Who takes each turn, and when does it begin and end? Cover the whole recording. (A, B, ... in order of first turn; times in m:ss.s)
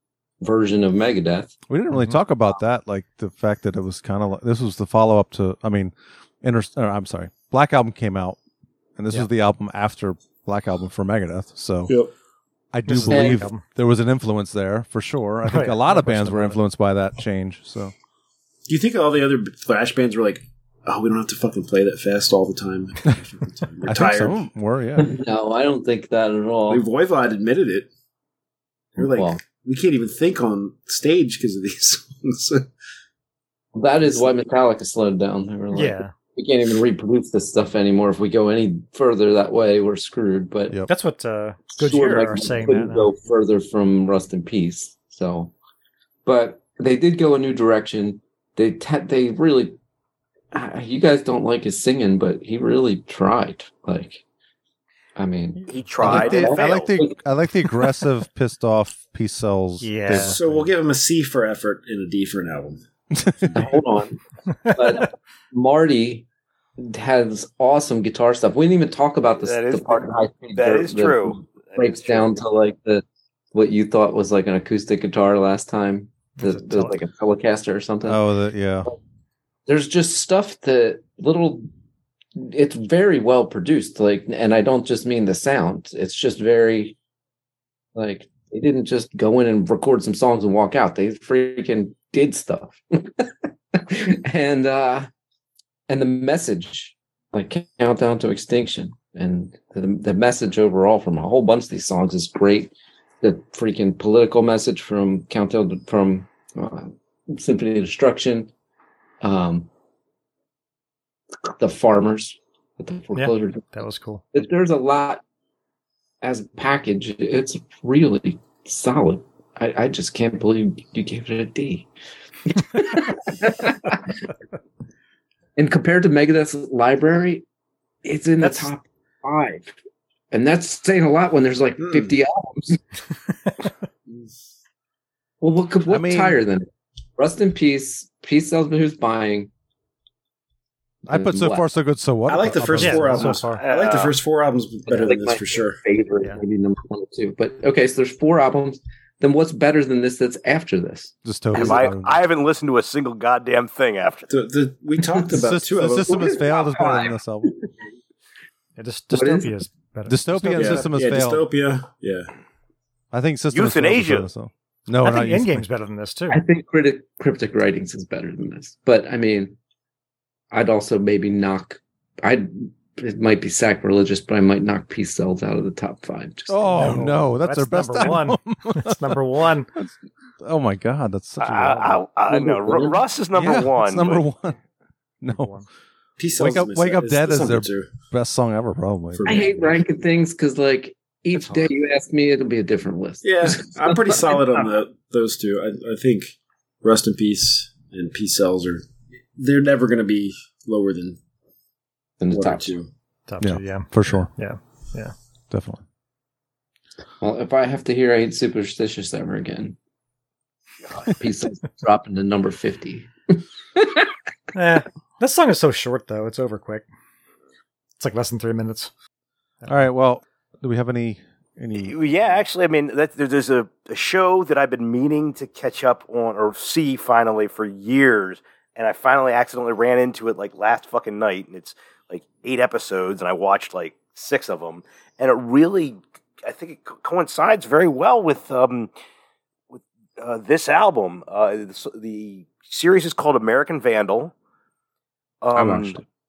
0:00.4-0:01.6 A
0:01.7-0:08.4 B
0:01.9-0:02.2 C
0:09.0-0:12.0 B
0:12.7-0:17.9 B
0:12.9-0:13.6 C
0:13.1-0:13.4 A
0:15.4-0:16.6 C
0:18.7-0:24.4 D
0:23.8-0:25.1 B
0:25.0-0:26.8 A
0:26.7-0:27.9 D
0:29.0-0:32.6 D
0:29.0-0:29.4 A
0:33.7-0:40.8 A
0:35.7-0:36.1 C
0:40.9-0:43.1 C
0:41.7-0:45.5 A
0:46.2-0:49.8 A
0:50.5-0:54.2 A
0:55.2-0:57.2 A
0:55.7-0:56.9 E
0:56.0-1:00.7 B
0:59.8-1:00.4 C
1:00.3-1:02.8 D
1:03.1-1:03.6 B
1:03.5-1:04.2 A
1:04.7-1:06.2 A
1:06.8-1:18.2 A
1:09.4-1:12.4 E
1:16.4-1:16.9 C
1:18.0-1:18.9 B
1:19.7-1:21.7 A
1:22.4-1:27.0 A
1:27.9-1:35.1 A
1:35.9-1:48.5 A
1:49.2-1:49.7 A
1:51.4-1:53.7 A
1:53.1-1:54.2 C
1:54.3-1:55.2 A
1:56.2-2:01.9 A
2:02.5-2:04.2 A
2:05.6-2:07.4 A
2:08.0-2:09.8 A
2:08.4-2:08.7 C
2:10.3-2:12.8 A
2:11.8-2:12.1 D
2:15.4-2:19.5 A
2:15.9-2:16.4 B
2:21.1-2:21.6 A
2:21.1-2:23.4 B
2:22.3-2:25.8 D
2:22.8-2:23.6 C
2:23.6-2:24.1 E
2:24.9-2:31.9 A
2:31.2-2:32.1 B
2:31.5-2:34.3 E
2:34.3-2:36.4 D
2:35.3-2:37.5 B
2:36.1-2:37.7 A
2:38.8-2:40.9 C
2:39.1-2:39.6 A
2:40.1-2:41.4 B
2:40.5-2:42.3 D
2:43.1-2:45.6 B
2:43.5-2:44.3 E
2:45.0-2:46.4 C
2:46.3-2:49.6 A
2:50.5-2:57.0 A
2:56.5-2:59.1 B
2:56.7-2:59.7 C
3:00.4-3:02.0 B
3:01.4-3:04.2 E
3:02.3-3:03.0 D
3:03.3-3:04.6 B
3:05.2-3:05.6 B
3:05.3-3:05.6 C
3:06.2-3:07.9 D
3:06.4-3:09.4 B
3:09.2-3:09.8 D
3:09.2-3:14.7 A
3:13.2-3:18.8 D
3:19.4-3:21.2 D
3:22.2-3:22.7 A
3:22.3-3:22.9 D
3:23.3-3:25.1 C
3:23.4-3:24.3 B
3:25.5-3:25.8 B
3:27.2-3:29.8 A
3:31.0-3:34.1 A
3:34.5-3:36.8 C
3:38.0-3:38.9 C
3:39.7-3:42.0 B
3:41.8-3:58.9 E
3:59.7-4:04.3 E
4:05.4-4:06.0 E
4:05.5-4:06.0 A